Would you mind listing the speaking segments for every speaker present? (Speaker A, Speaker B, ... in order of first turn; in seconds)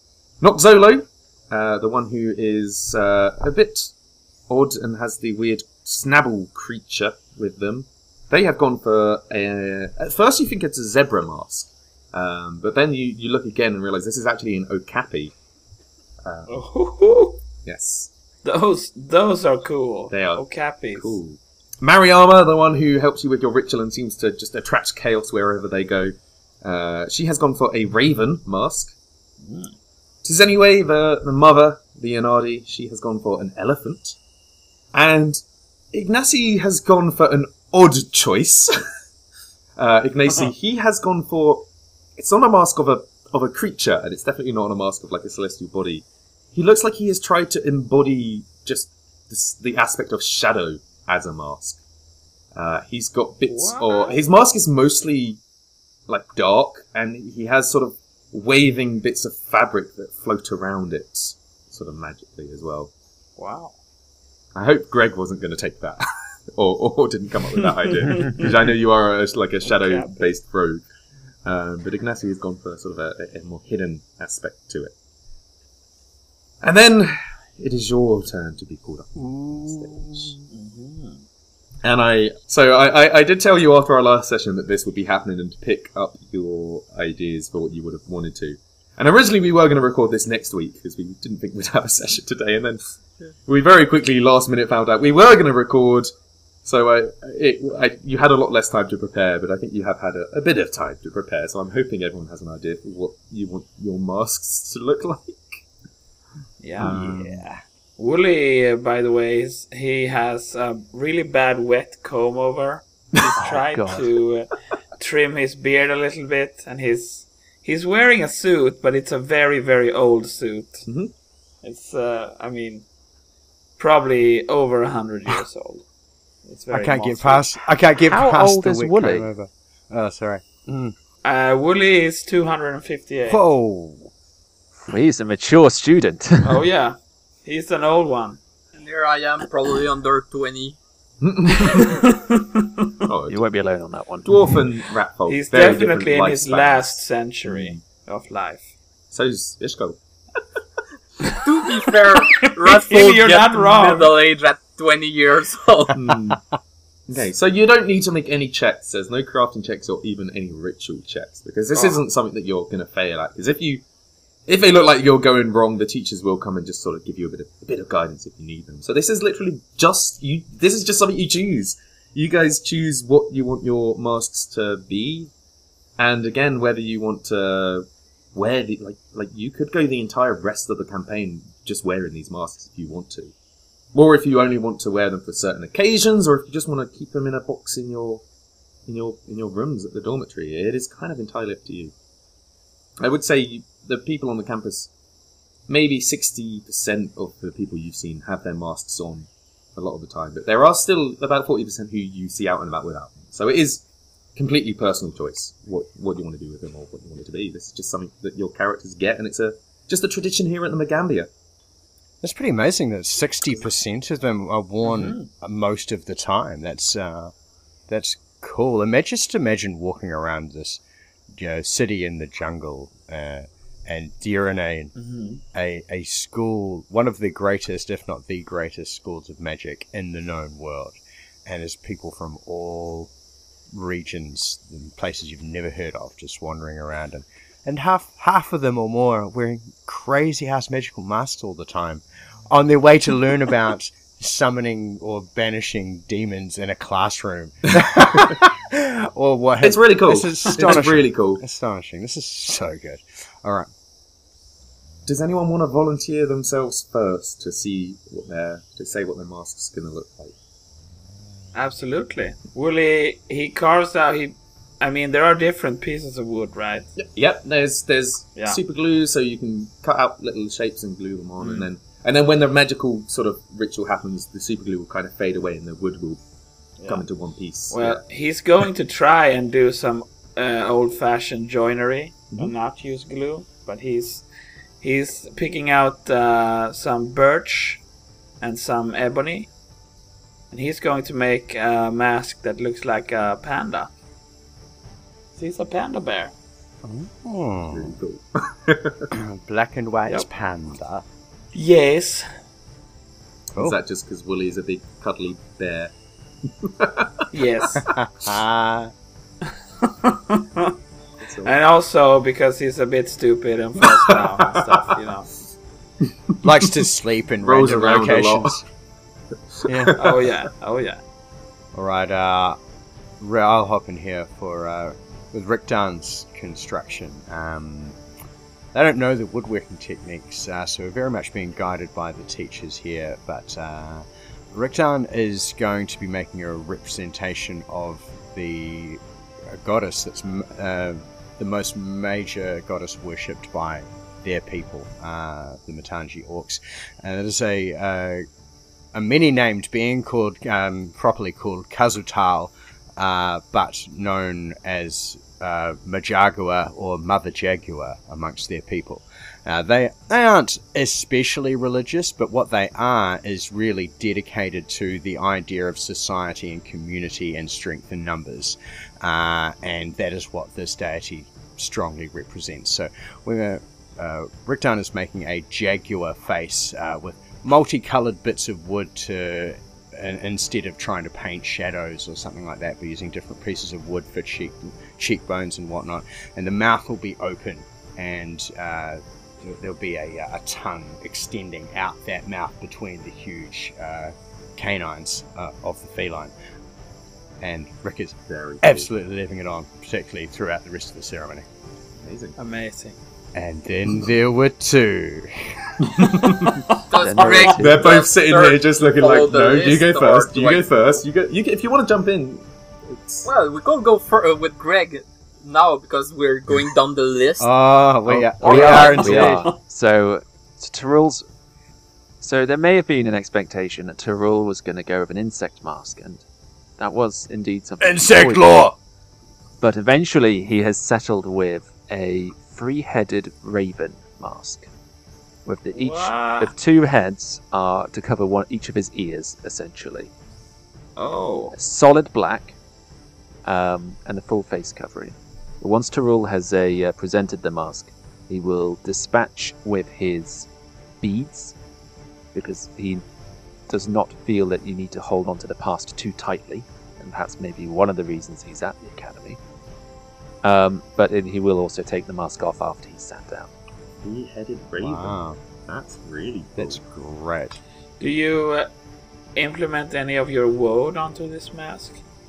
Speaker A: 0.4-3.9, 4.5-15.3, 16.2-16.5, 17.6-18.1, 20.1-28.9, 30.2-34.2, 34.9-35.4, 35.9-38.7, 39.8-41.7, 42.2-51.8, 52.5-55.4, 56.1-62.9, 64.5-66.0, 66.5-70.8, 71.5-74.9, 76.6-80.3, 81.8-92.8, 93.5-96.1, 96.7-105.4, 106.8-107.4, 120.9-121.1, 141.2-142.0, 143.0-143.4, 144.2-147.8, 149.1-150.0, 155.9-156.4, 157.1-163.8, 164.5-175.3, 176.0-183.3, 183.9-188.2, 188.9-191.9, 193.0-194.9, 195.7-203.8, 204.4-211.3, 249.6-251.4, 255.1-260.4, 267.0-276.2, 276.9-278.0, 297.7-299.1, 303.6-305.9, 306.6-307.3, 311.2-311.6, 313.8-314.9, 316.3-316.7, 317.4-318.6, 319.6-320.3, 398.3-398.9, 402.0-402.4, 405.8-406.7, 407.5-413.3, 464.0-466.8
Speaker B: 16.5-17.4, 18.4-21.2, 29.4-29.7, 53.5-54.2, 63.4-63.8, 68.1-68.4, 69.6-70.2, 80.5-81.2, 106.6-107.1, 108.0-120.8, 121.6-122.9, 123.8-125.8, 126.5-127.5, 131.2-133.4, 136.4-138.4, 141.6-143.1, 145.3-148.7, 151.2-151.5, 152.0-154.2, 161.8-162.0, 214.8-215.3, 225.0-225.4, 261.5-266.9, 271.4-271.7, 277.7-284.2, 284.8-287.8, 288.4-289.5, 290.5-293.9, 295.4-296.3, 301.5-302.3, 307.3-307.9, 309.8-310.8, 311.4-315.3, 320.0-321.0, 402.4-403.0, 418.8-419.6, 435.7-436.5, 441.0-441.6, 468.0-468.7, 469.4-472.0
Speaker C: 106.8-107.6, 126.7-130.9, 133.3-134.1, 212.2-217.3, 217.9-220.8, 221.3-224.9, 225.5-233.1, 233.7-253.7, 296.8-297.9, 299.1-301.0, 307.8-308.9, 316.4-318.6, 319.7-319.9, 321.7-322.6, 323.2-328.0, 328.7-348.2, 348.9-396.3, 397.4-401.5, 403.3-405.8, 417.4-419.5, 427.8-428.8, 464.8-465.4, 466.6-467.6
Speaker D: 113.4-114.1, 128.0-129.3, 134.9-136.7, 143.3-144.6, 407.0-407.8, 418.4-421.2, 422.2-426.2, 426.8-428.7, 429.6-434.7, 435.5-440.1, 441.5-442.6, 443.4-450.5, 451.0-451.5, 452.3-453.0, 453.7-459.4, 460.4-463.5
Speaker E: 138.8-140.8, 151.3-156.0, 406.9-410.7, 413.2-417.5, 418.4-419.4